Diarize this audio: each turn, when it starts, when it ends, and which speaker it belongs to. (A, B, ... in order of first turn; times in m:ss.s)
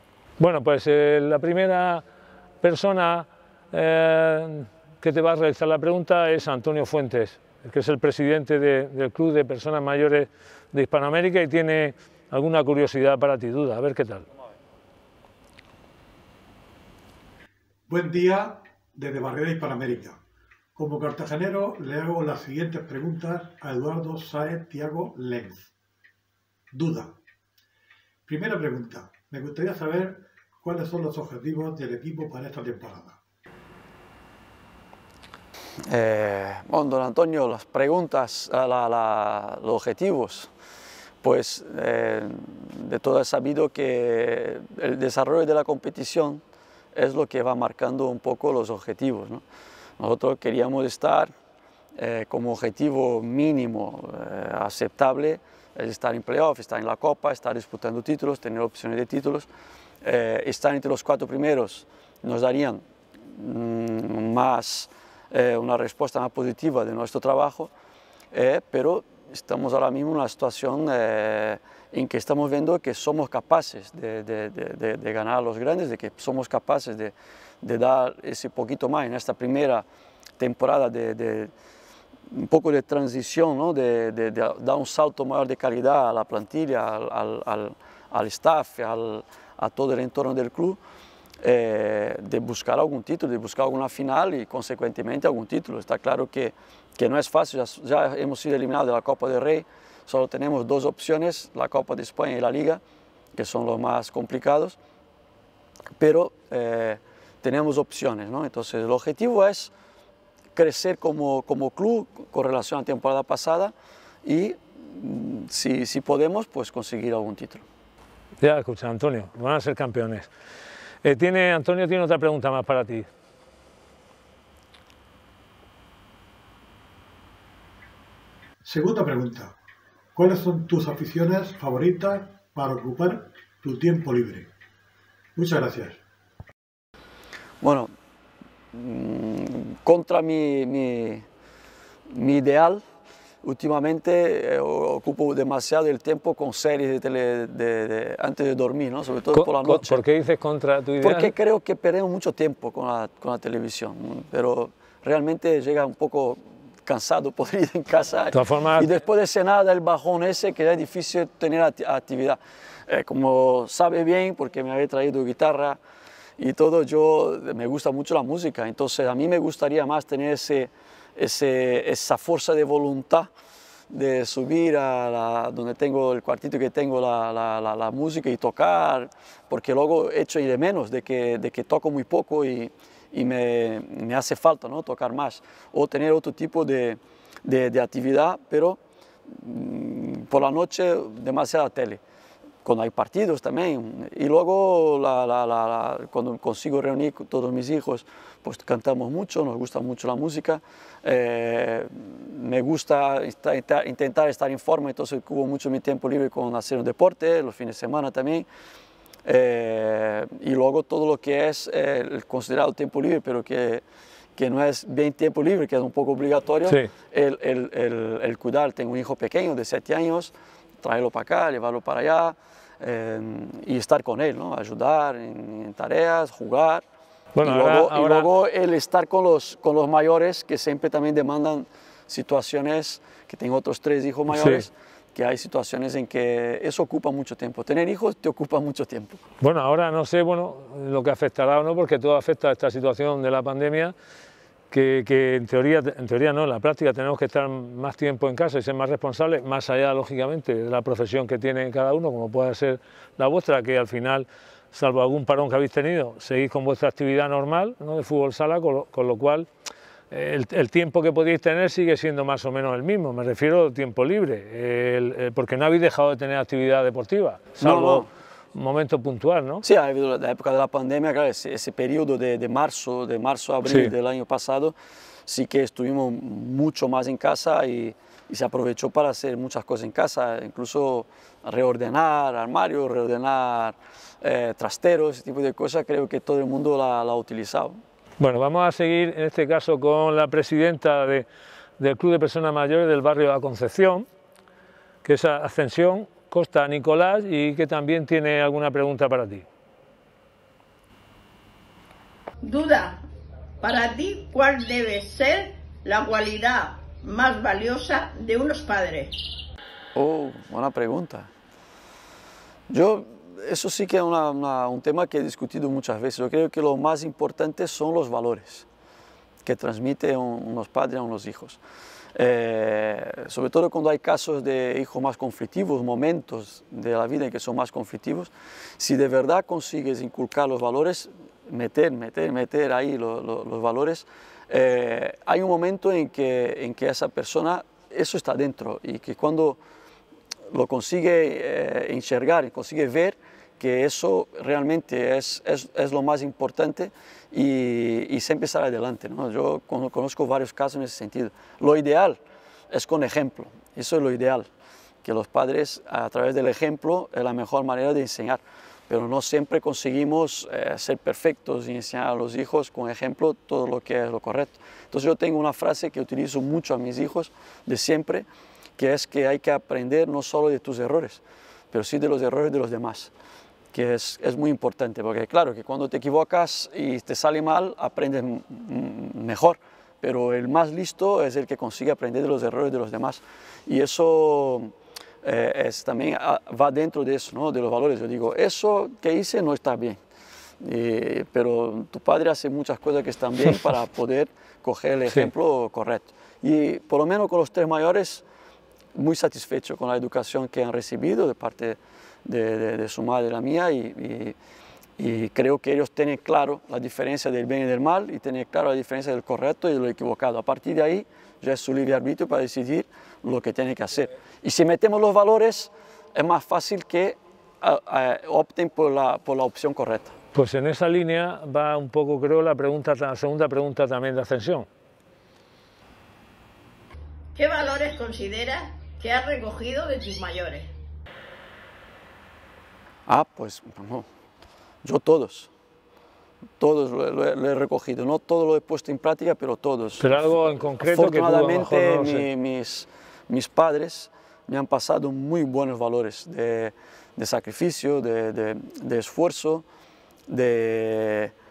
0:00.4-0:02.0 A
0:02.6-0:14.2 A
0:17.9-0:20.2 B
0:20.8-0:25.7 B
0:26.7-0:27.2 B
0:28.3-0:33.2 B
0:35.9-0:40.5 C
0:41.2-0:46.4 C
0:46.9-0:49.4 C
0:50.0-0:51.3 C
0:52.0-0:59.5 C
1:00.0-1:07.7 C
1:08.3-1:19.8 C
1:20.4-1:21.5 C
1:22.3-1:30.8 C
1:31.4-1:42.8 C
1:43.4-1:44.8 C
1:46.0-1:49.7 C
1:50.6-1:53.7 C
1:54.2-1:57.6 C
1:58.4-2:00.3 A
2:01.0-2:03.1 A
2:08.6-2:09.5 B
2:10.1-2:14.5 B
2:15.4-2:16.0 B
2:17.6-2:17.9 C
2:18.7-2:21.2 C
2:22.1-2:22.8 C
2:23.4-2:30.0 C
2:29.3-2:31.3 A
2:31.0-2:45.8 C
2:38.3-2:38.9 A
2:46.4-2:53.3 C
2:53.9-3:12.0 C
3:12.6-3:28.5 C
3:29.2-3:33.8 C
3:34.4-3:46.8 C
3:47.4-3:48.3 A
3:47.4-3:59.2 C
3:54.3-3:54.6 A
3:59.4-4:03.9 A
4:04.7-4:19.5 A
4:20.1-4:29.6 A
4:27.6-4:28.1 C
4:29.6-4:34.7 C
4:33.6-4:33.9 A
4:35.3-4:47.8 C
4:48.2-4:51.2 A
4:51.8-4:54.0 A
4:55.0-4:59.4 A
5:02.4-5:03.0 D
5:03.6-5:09.1 D
5:09.9-5:11.3 C
5:12.7-5:18.6 C
5:19.4-5:21.6 C
5:22.2-5:39.6 C
5:40.5-5:52.2 C
5:52.7-5:54.5 C
5:55.0-6:08.2 C
6:08.8-6:11.2 C
6:11.7-6:13.1 C
6:13.7-6:30.0 C
6:30.6-6:38.2 C
6:38.9-6:44.4 C
6:45.0-7:00.1 C
7:00.3-7:04.7 A
7:07.3-7:10.7 D
7:13.1-7:14.0 C
7:14.8-7:15.5 C
7:16.6-7:29.6 C
7:20.0-7:22.2 A
7:30.3-7:31.3 C